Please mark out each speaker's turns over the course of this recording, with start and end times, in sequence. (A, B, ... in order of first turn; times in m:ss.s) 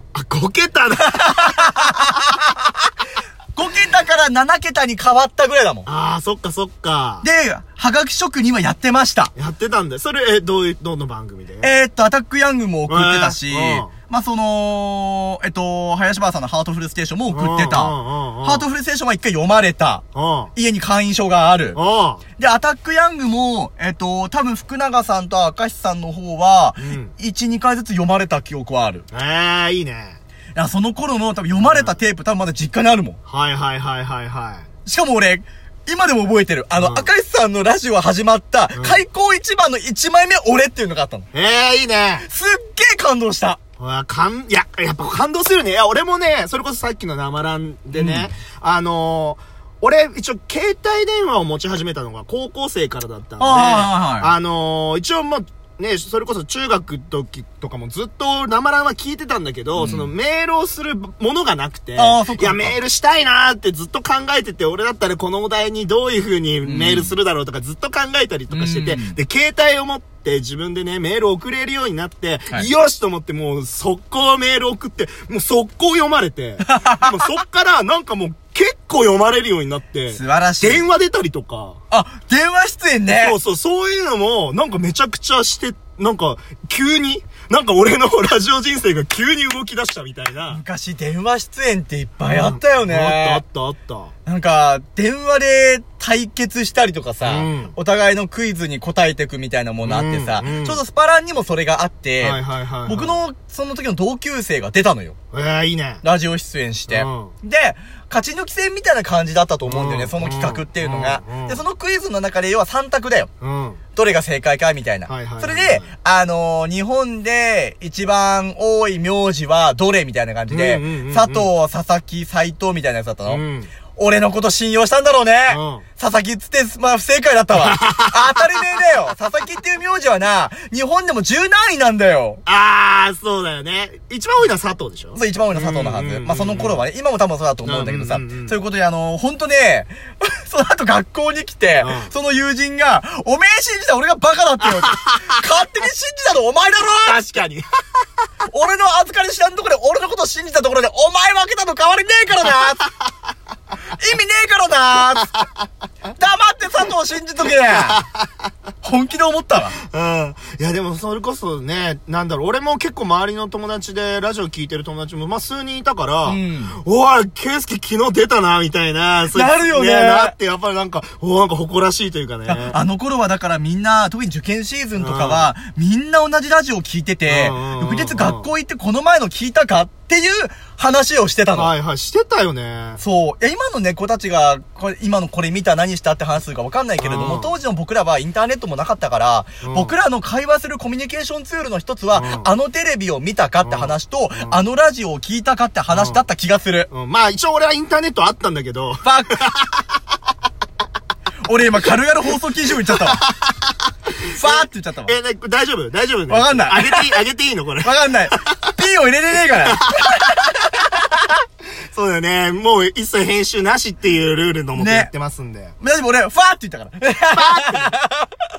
0:00.2-0:02.3 A
0:01.1-0:02.7 B
0:03.6-0:05.9 B
0:05.9-0:07.3 A
0:07.2-0:09.3 B
0:09.4-0:11.7 A
0:11.6-0:20.0 B
0:12.9-0:13.9 A
0:17.3-0:18.7 A
0:20.1-0:20.5 A
0:20.6-0:21.8 B
0:21.7-0:22.2 A
0:22.4-0:29.1 B
0:26.8-0:27.1 A
0:29.1-0:30.2 A
0:30.6-0:33.2 B
0:31.6-0:32.0 A
0:33.3-0:34.7 A
0:34.9-0:41.3 B
0:36.8-0:37.1 A
0:38.8-0:39.0 A
0:41.3-0:42.3 A
0:42.3-0:43.6 B
0:43.8-1:21.8 A
0:47.9-0:48.3 B
0:53.4-0:54.3 B
0:59.8-1:00.1 B
1:02.0-1:02.8 B
1:06.6-1:07.2 B
1:08.5-1:09.2 B
1:16.7-1:17.2 B
1:20.1-1:20.8 B
1:21.9-1:23.4 B
1:23.2-1:30.6 A
1:30.5-1:33.4 B
1:32.3-1:34.1 A
1:34.3-1:45.2 B
1:37.2-1:37.8 A
1:39.8-1:40.8 A
1:42.2-1:43.2 A
1:45.3-1:46.0 A
1:46.0-1:53.3 B
1:46.9-1:47.3 A
1:49.7-1:51.6 A
1:53.4-1:53.8 A
1:54.0-2:03.4 B
1:55.1-1:55.9 A
2:00.5-2:01.5 A
2:03.3-2:03.7 A
2:04.0-2:12.4 B
2:05.5-2:05.8 A
2:07.6-2:08.8 A
2:12.4-2:16.8 A
2:15.2-2:27.2 B
2:17.6-2:18.6 A
2:21.8-2:22.1 A
2:24.7-2:25.3 A
2:27.0-2:28.0 A
2:28.5-2:32.9 B
2:33.8-2:35.4 B
2:36.2-2:38.0 B
2:37.7-2:38.4 A
2:38.8-2:39.8 B
2:39.8-2:52.8 A
2:46.2-2:46.8 B
2:49.3-2:50.4 B
2:52.5-3:01.7 B
2:55.0-2:55.5 A
2:57.3-2:58.5 A
3:01.5-3:03.0 A
3:03.0-3:16.9 B
3:07.0-3:07.5 A
3:09.6-3:09.9 A
3:12.1-3:12.5 A
3:13.6-3:14.6 A
3:15.9-3:16.2 A
3:16.9-3:19.9 A
3:19.0-3:19.5 B
3:21.5-3:23.2 B
3:22.9-3:28.7 A
3:24.3-3:25.2 B
3:26.3-3:27.2 B
3:27.8-3:31.3 B
3:29.7-3:30.4 A
3:31.8-3:35.8 A
3:34.8-3:35.1 B
3:35.8-3:38.3 B
3:37.3-3:37.9 A